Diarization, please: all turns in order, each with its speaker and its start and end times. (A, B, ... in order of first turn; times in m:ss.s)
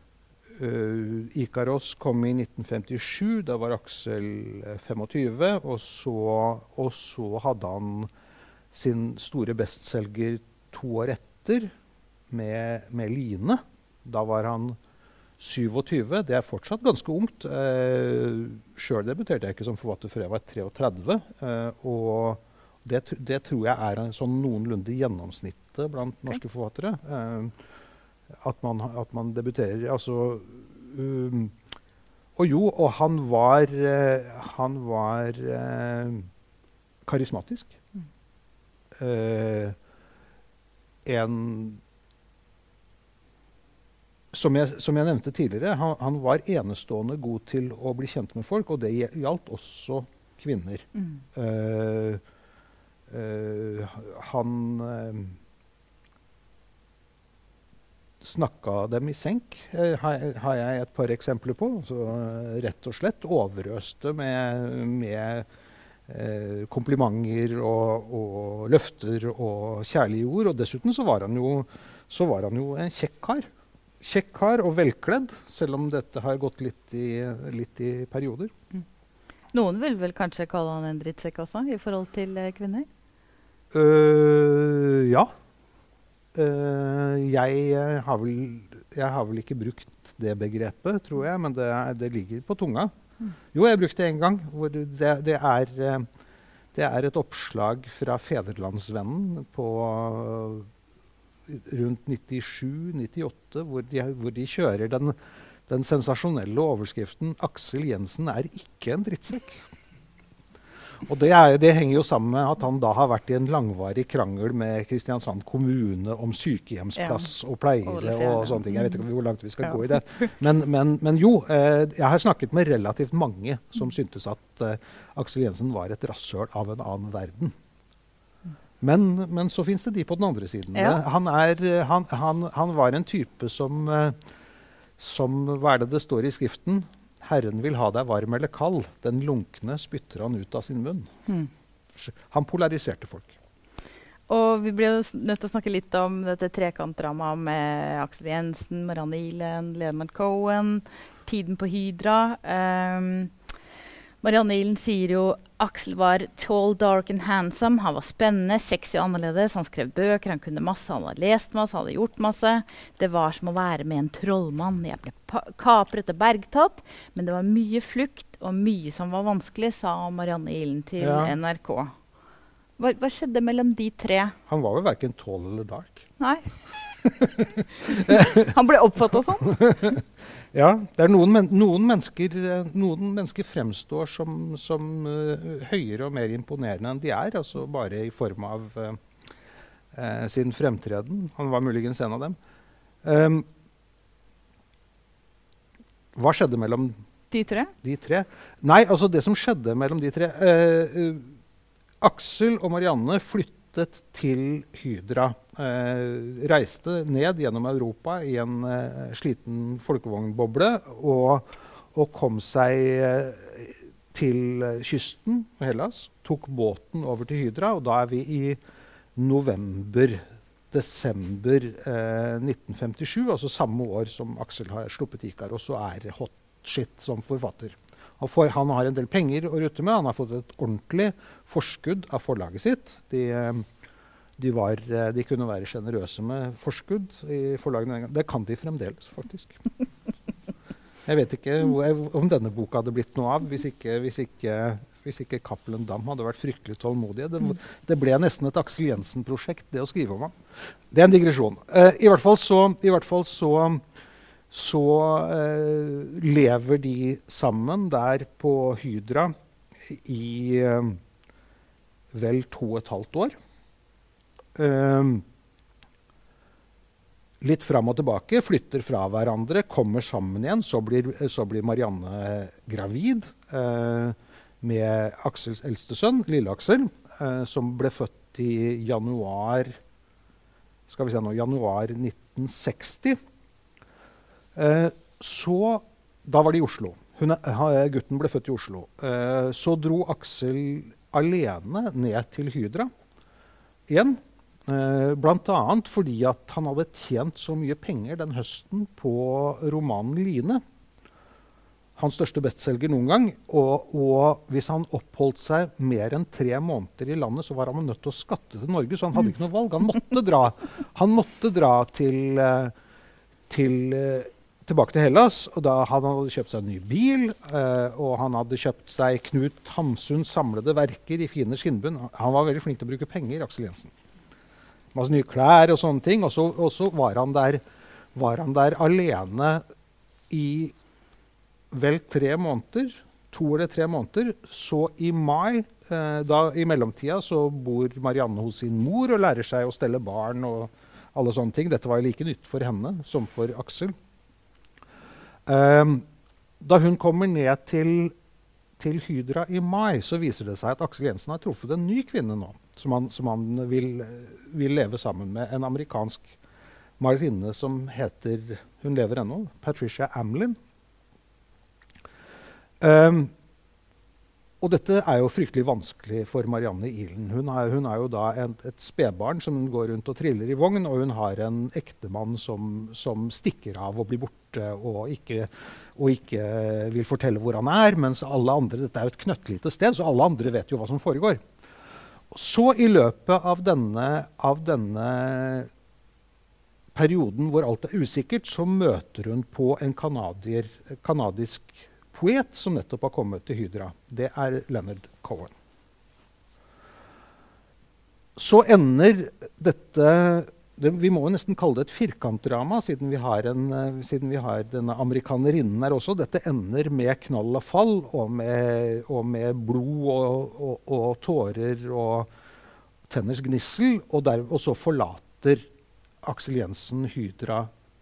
0:00.5-0:08.1 A
0:08.7-0:11.7 A
0:12.3-0:14.8 A
0:15.4-0:27.6 A
0:28.4-0:31.5 A
0:32.4-0:36.3 A
0:37.0-0:37.8 A
0:39.0-0:39.8 A
0:41.0-0:41.8 A
0:44.3-0:52.2 A
0:53.1-0:55.4 A
0:58.2-1:05.5 A
1:06.1-1:13.5 A
1:14.0-1:18.5 A
1:19.5-1:22.9 B
1:23.7-1:25.3 A
1:26.3-1:32.9 A
1:33.5-1:36.1 A
1:36.7-1:40.7 A
1:41.5-1:45.2 A
1:45.7-1:49.6 A
1:51.0-2:07.6 A
1:57.0-1:57.3 B
1:57.8-1:59.0 B
2:08.8-2:14.2 A
2:15.0-2:21.1 A
2:22.0-2:23.4 A
2:24.3-2:33.3 B
2:34.2-2:51.9 B
2:51.0-2:51.4 A
2:52.8-2:54.4 B
2:54.5-2:56.1 A
2:56.2-2:56.5 B
2:57.0-2:58.5 A
2:57.8-2:59.6 B
2:59.4-3:09.0 A
3:09.9-3:12.4 A
3:13.0-3:13.4 A
3:16.1-3:16.9 A
3:17.3-3:17.7 B
3:17.8-3:21.3 A
3:22.0-3:38.6 A
3:39.2-3:53.7 A
3:54.4-3:59.6 A
4:01.0-4:10.4 A
4:10.9-4:13.8 A
4:14.5-4:21.0 A
4:22.1-4:23.3 A
4:24.6-4:25.2 A
4:27.4-4:39.8 A
4:40.9-4:43.2 A
4:44.5-4:52.9 A
4:53.9-5:00.6 A
5:02.0-5:12.7 A
5:13.5-5:23.9 A
5:24.9-5:27.6 A
5:28.1-5:29.6 A
5:30.3-5:30.7 A
5:31.7-5:43.9 A
5:45.4-5:46.0 A
5:46.6-5:48.1 A
5:48.8-5:56.4 A
5:57.0-6:00.6 A
6:02.8-6:03.3 A
6:04.6-6:21.4 A
6:22.3-6:25.7 A
6:26.9-6:35.5 A
6:38.4-6:52.3 A
6:53.1-6:55.7 A
6:56.2-6:57.7 A